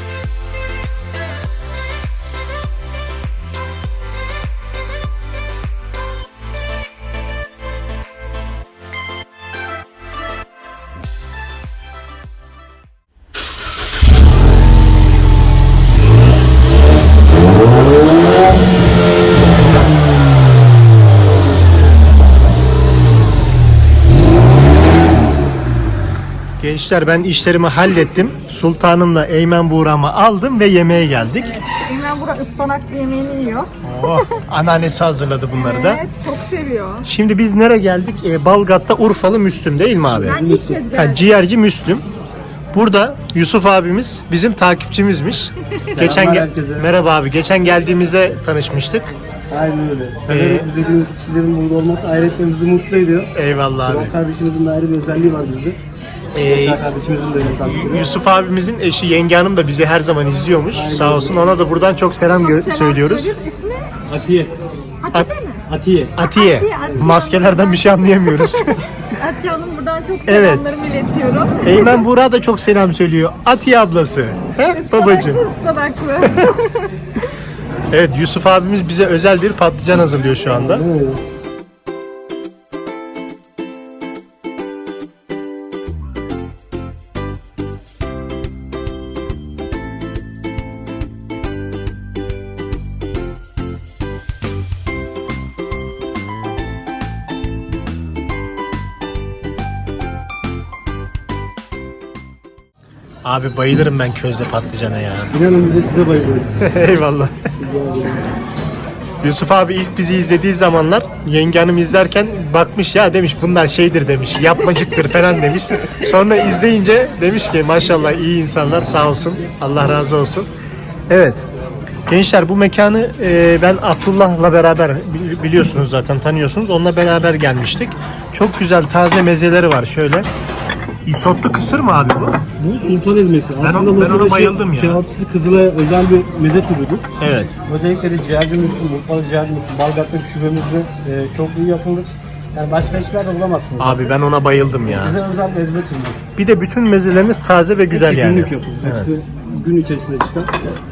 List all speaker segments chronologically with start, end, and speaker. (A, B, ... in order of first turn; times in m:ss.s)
0:26.6-0:31.6 A
0:31.4-0:34.3 B
0:33.8-0:36.0 A
0:35.5-0:37.1 B
0:37.0-0:40.4 A
0:40.1-0:40.8 C
0:40.2-0:41.3 B
0:40.9-0:42.0 A
0:42.7-0:49.1 A
0:45.9-0:46.9 C
0:49.5-0:53.3 C
0:50.3-0:50.7 A
0:53.3-0:54.1 A
0:53.8-0:55.8 C
0:56.3-0:56.8 A
0:56.4-0:58.1 C
0:57.6-1:03.4 A
1:00.7-1:01.6 C
1:02.2-1:03.9 B
1:04.1-1:04.5 C
1:05.0-1:05.6 B
1:05.7-1:06.1 C
1:06.1-1:08.9 A
1:06.2-1:12.1 B
1:10.2-1:10.7 A
1:11.6-1:15.4 A
1:14.6-1:16.9 B
1:16.2-1:16.5 A
1:17.9-1:20.9 A
1:20.5-1:21.2 C
1:43.2-1:45.4 A
1:45.3-1:46.6 C
1:46.6-1:47.3 A
1:47.6-1:48.3 C
1:49.2-2:00.5 A
2:01.1-2:01.4 A
2:02.1-2:10.3 A
2:11.0-2:12.4 A
2:12.6-2:17.0 C
2:13.6-2:15.0 A
2:17.2-2:17.6 A
2:17.6-2:24.1 C
2:23.8-2:25.2 A
2:24.8-2:26.2 C
2:26.4-2:29.1 A
2:27.9-2:30.5 C